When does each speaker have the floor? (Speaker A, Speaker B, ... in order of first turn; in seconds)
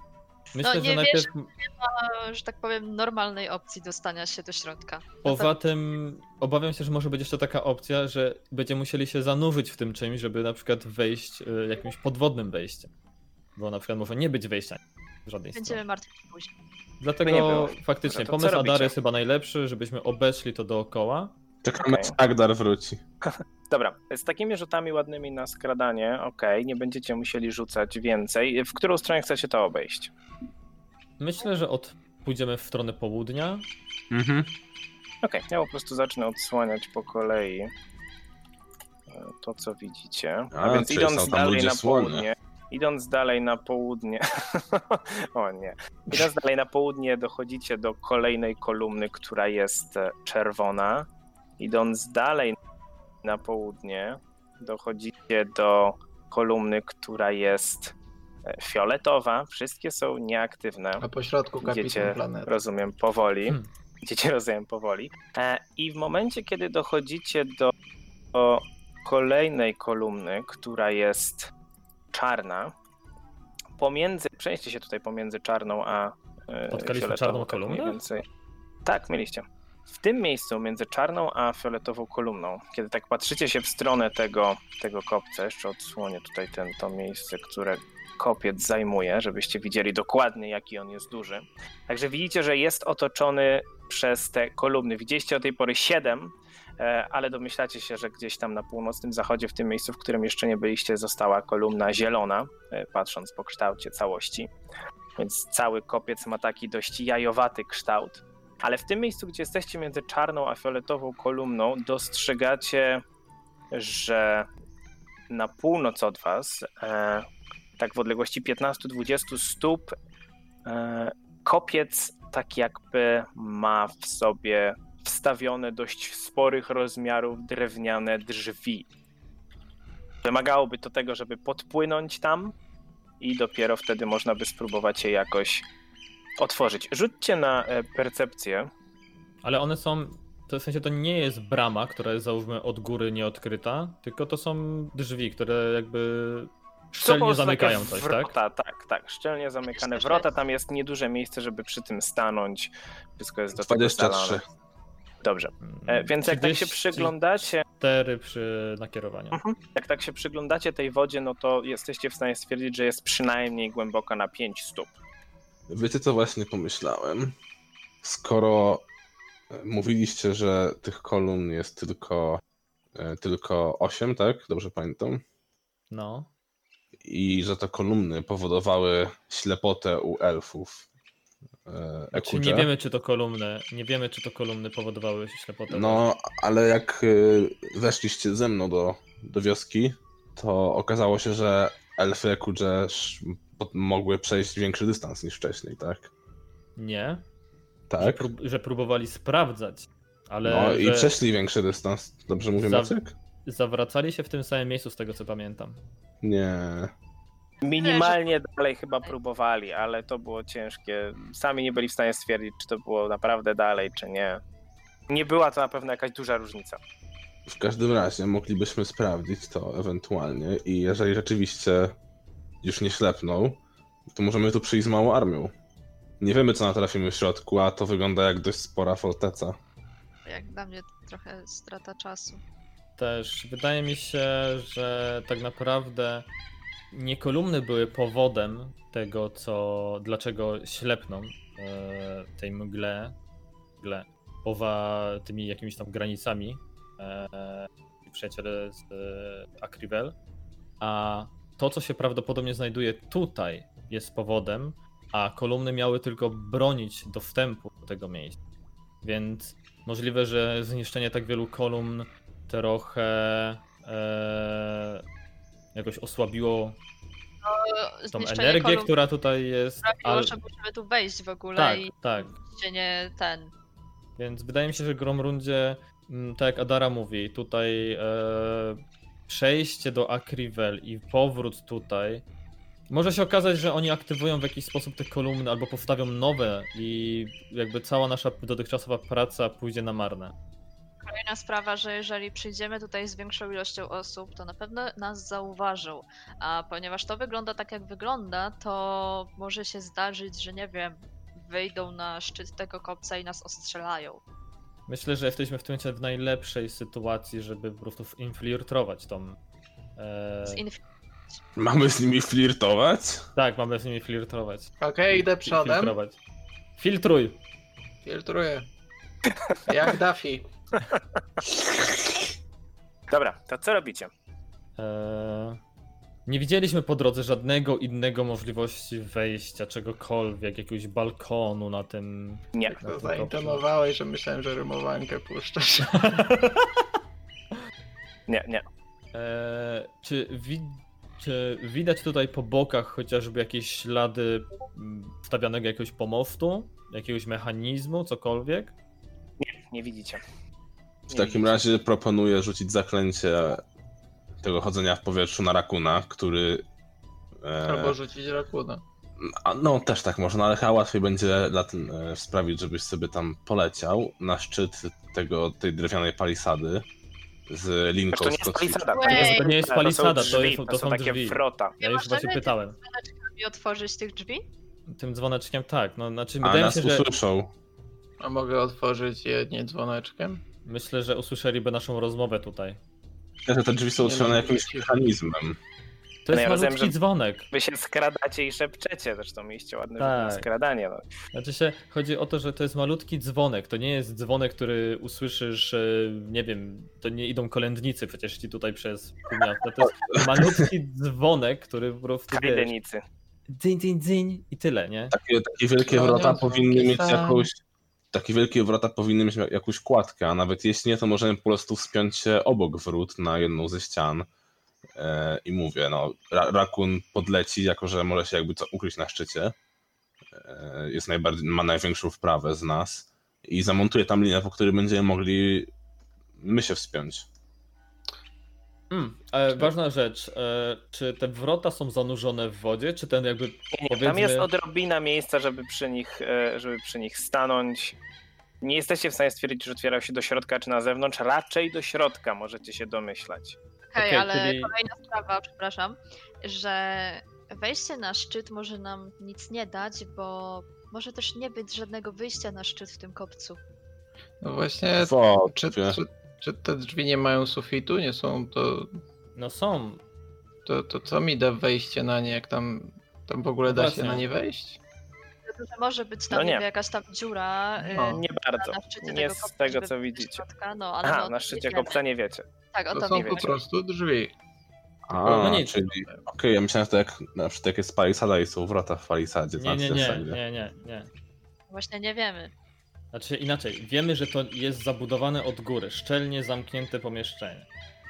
Speaker A: 0.5-1.5, 5.2-12.9, 13.6-15.8, 17.0-21.3, 31.2-33.7, 76.7-78.0, 139.4-148.3, 155.6-157.1, 157.8-159.4, 175.9-176.3, 182.1-186.0, 196.8-197.2, 198.0-201.1, 202.6-205.8, 233.0-236.3, 236.9-243.2, 243.8-250.1, 250.8-258.4, 259.0-265.0, 265.7-266.8, 268.1-270.3, 271.6-272.3, 274.2-282.2, 282.9-290.3, 304.9-309.4, 310.0-310.6, 313.4-316.2, 316.8-317.4, 324.8-325.6, 326.2-333.6, 335.8-336.8, 339.1-348.7, 369.1-372.8, 374.9-377.1, 380.6-382.8, 386.2-387.5, 390.0-390.4, 391.3-402.7, 403.5-405.1, 428.9-434.4, 444.0-444.7, 459.4-460.0, 463.6-464.2, 475.4-475.7, 479.6-481.1, 483.1-487.7
Speaker B: 0.6-5.5, 15.5-16.5, 149.7-150.3, 207.8-208.4, 230.2-232.4, 267.4-268.9, 269.8-273.5, 291.0-304.2, 310.4-311.4, 368.9-369.5, 371.8-374.4, 443.9-453.6, 465.4-472.0, 472.7-473.5, 481.7-482.5
Speaker C: 17.2-18.9, 21.8-22.1, 23.3-30.1, 35.2-37.7, 39.1-51.1, 51.6-52.6, 53.2-57.9, 58.5-61.0, 61.6-67.7, 68.3-71.5, 72.1-72.7, 73.8-78.2, 78.8-104.5, 105.2-113.0, 113.7-114.5, 115.3-117.2, 117.8-119.9, 120.7-128.9, 130.2-132.5, 133.2-135.6, 136.4-138.7, 146.9-154.4, 155.2-157.6, 159.3-165.0, 207.6-214.4, 215.1-216.8, 323.1-324.1, 338.3-338.6, 349.4-350.2, 351.1-351.8, 368.1-371.8, 386.3-386.9, 387.5-391.0, 402.3-403.0, 433.7-437.9, 438.6-443.6, 466.3-466.6, 468.1-470.4, 471.0-472.5, 473.0-473.5
Speaker D: 21.6-23.0, 34.1-34.5, 40.5-42.2, 153.5-154.4, 165.7-167.3, 168.0-168.8, 169.5-172.4, 172.9-175.2, 177.0-180.8, 181.7-182.7, 185.7-196.1, 197.9-198.3, 200.4-203.1, 206.2-206.9, 217.5-221.9, 222.6-225.5, 226.2-229.6, 311.6-313.2, 351.1-353.6, 354.4-356.6, 357.4-357.9, 359.2-366.9, 367.5-368.9, 376.4-377.5, 383.4-385.6, 400.2-400.6, 405.1-407.6, 408.1-414.3, 414.9-419.5, 420.3-425.7, 426.4-427.3, 455.0-456.0, 475.1-480.4
Speaker E: 61.0-62.5, 314.8-315.9, 318.0-318.7, 319.7-320.5, 332.7-336.2, 357.6-358.8, 378.2-380.4, 384.0-385.1, 405.9-407.5, 454.4-459.0, 460.6-464.8, 467.9-468.2, 472.9-474.3, 475.1-476.2